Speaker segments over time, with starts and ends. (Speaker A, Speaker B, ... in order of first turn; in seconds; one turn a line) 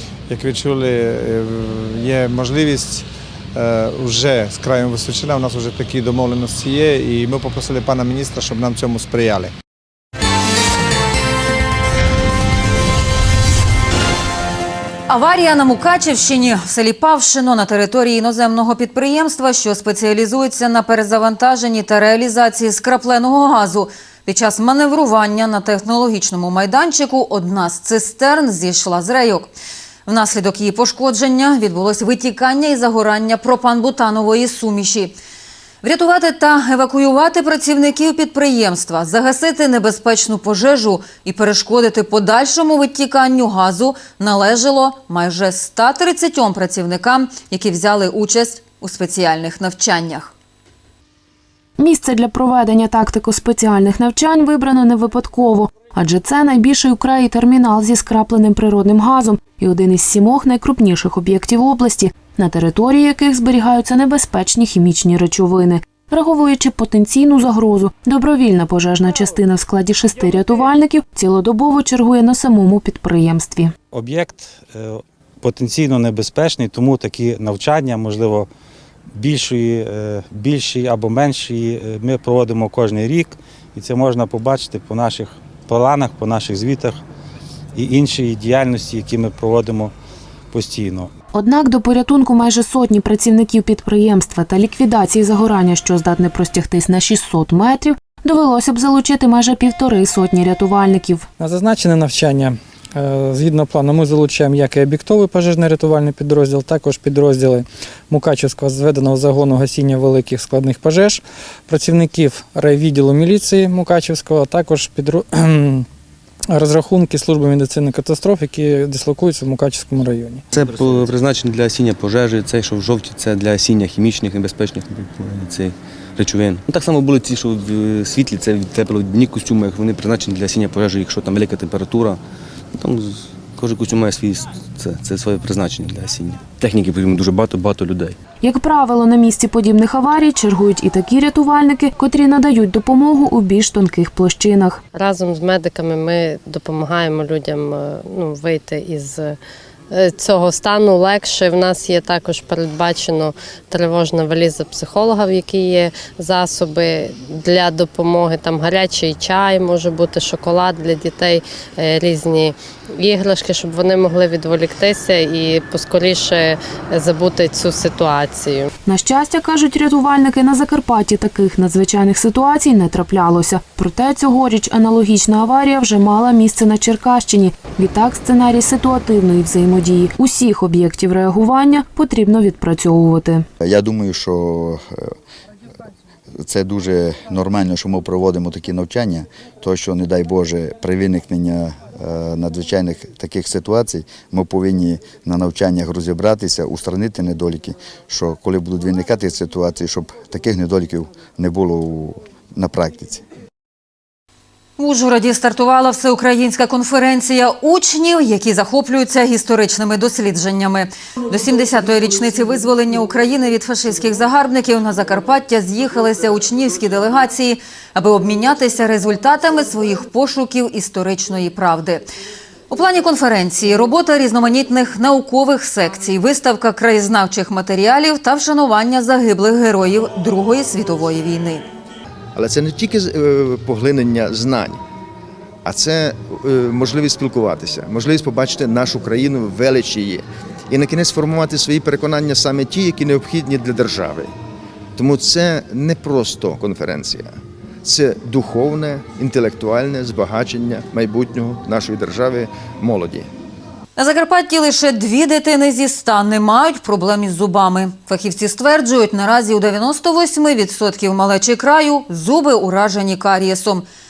Speaker A: 0.3-9.5
Speaker B: 15.1-29.5
Speaker B: 30.1-35.2
Speaker B: 35.8-50.3
Speaker C: 51.8-73.7
Speaker D: 73.9-78.5
Speaker D: 79.1-87.0
Speaker D: 87.7-89.9
Speaker D: 90.5-91.1
Speaker C: 91.3-101.3
Speaker E: 101.4-115.8
Speaker E: 116.5-120.4
Speaker F: 120.5-125.6
Speaker G: 120.5-132.2
Speaker F: 126.2-127.3
Speaker F: 128.2-128.6
Speaker F: 129.2-129.5
Speaker F: 130.1-131.8
Speaker G: 132.8-138.1
Speaker F: 133.8-134.1
Speaker F: 134.9-138.1
Speaker C: 138.4-144.8
Speaker F: 144.9-149.4
Speaker F: 149.9-168.7
Speaker C: 168.8-183.4
Speaker H: 183.6-185.1
Speaker H: 186.4-203.2
Speaker B: 204.8-222.1
Speaker B: 222.7-231.7
Speaker I: 232.3-234.8
Speaker I: 235.6-244.3
Speaker I: 244.9-247.3
Speaker I: 247.8-253.3
Speaker B: 254.0-263.9